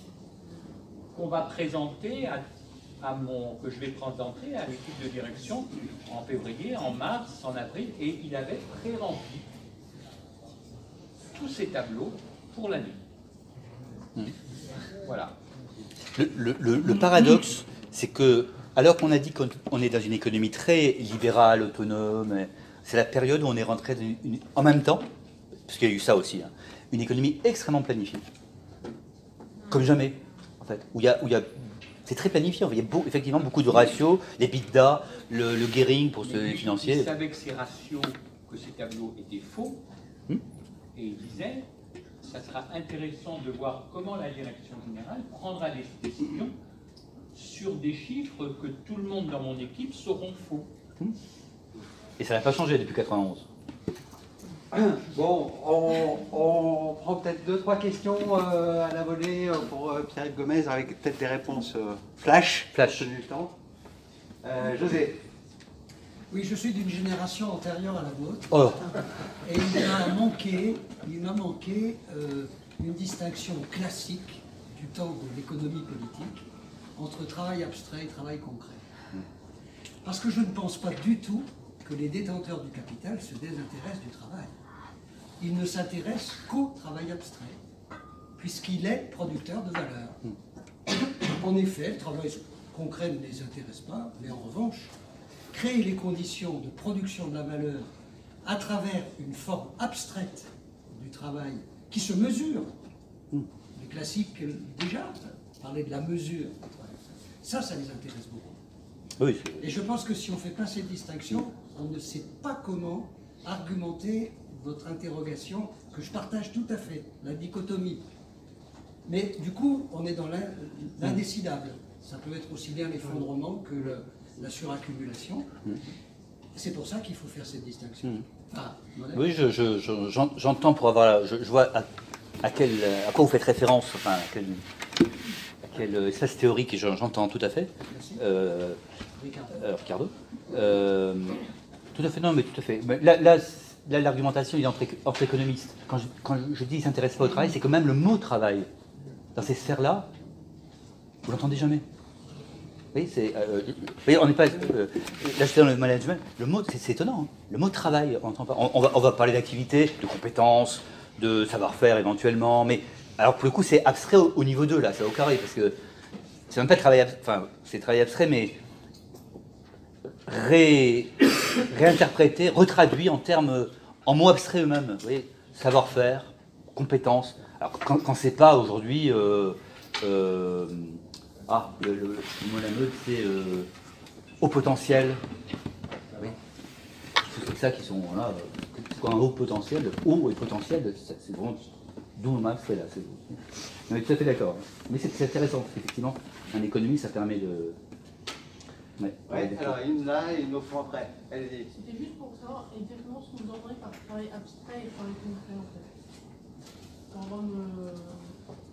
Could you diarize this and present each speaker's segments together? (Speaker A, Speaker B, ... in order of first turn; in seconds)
Speaker A: 1.1-2.4, 3.0-9.5, 11.3-13.0, 15.0-15.3, 36.2-39.8, 41.0-41.7, 42.2-46.5, 47.3-50.7
Speaker B: 16.2-25.1, 25.7-28.2, 29.7-37.1, 52.2-53.5, 62.7-63.1, 68.5-68.8, 109.2-109.7, 129.1-131.9, 132.4-134.6, 135.6-138.8, 139.5-141.4, 141.9-148.7, 149.3-150.1, 151.3-151.8, 152.9-165.8, 166.5-168.6, 170.3-183.7, 184.4-185.2, 187.2-197.8, 199.0-199.8
Speaker C: 54.7-63.5, 64.4-65.2, 199.3-201.7
Speaker D: 66.3-76.4, 77.0-78.8, 80.0-84.5, 85.4-87.6, 88.4-90.2, 90.9-94.9, 95.5-97.9, 98.4-102.7, 103.8-108.6, 109.6-118.1, 119.0-125.5, 126.5-129.3, 137.9-138.2, 139.2-139.6
Speaker E: 201.7-205.9, 207.1-208.3